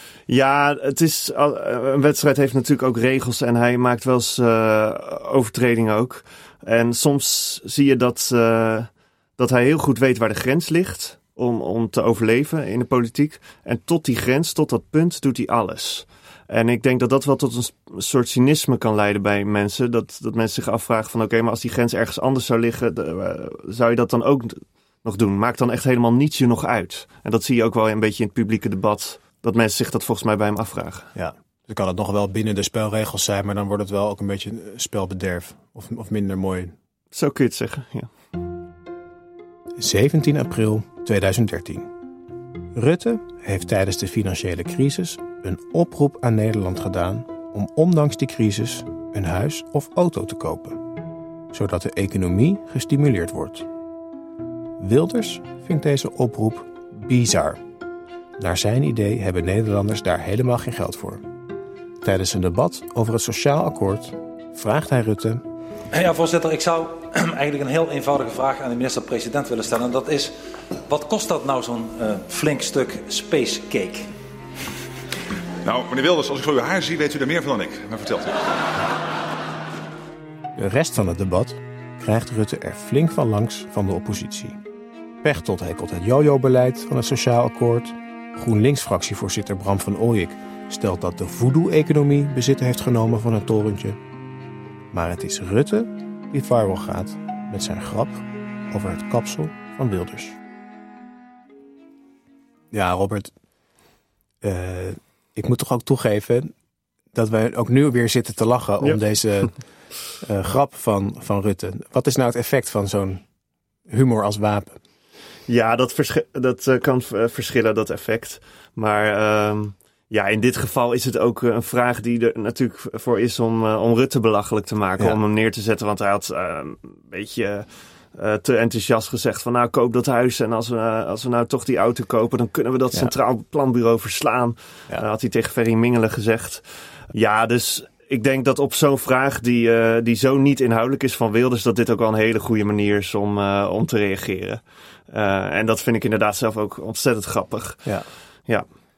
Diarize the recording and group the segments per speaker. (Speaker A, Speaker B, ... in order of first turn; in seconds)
Speaker A: 0.3-31.1, 37.1-38.1, 108.8-109.5, 115.5-147.9
Speaker B: 31.1-36.7, 39.8-41.9, 42.7-50.8, 51.5-53.7, 54.8-57.6, 58.4-61.2, 62.0-65.4, 80.5-84.6, 85.2-94.0, 94.9-100.4, 102.7-103.3, 104.4-106.5, 107.1-109.5, 110.2-113.2, 113.9-114.8
Speaker C: 65.9-70.3, 70.8-74.1
Speaker D: 75.6-78.4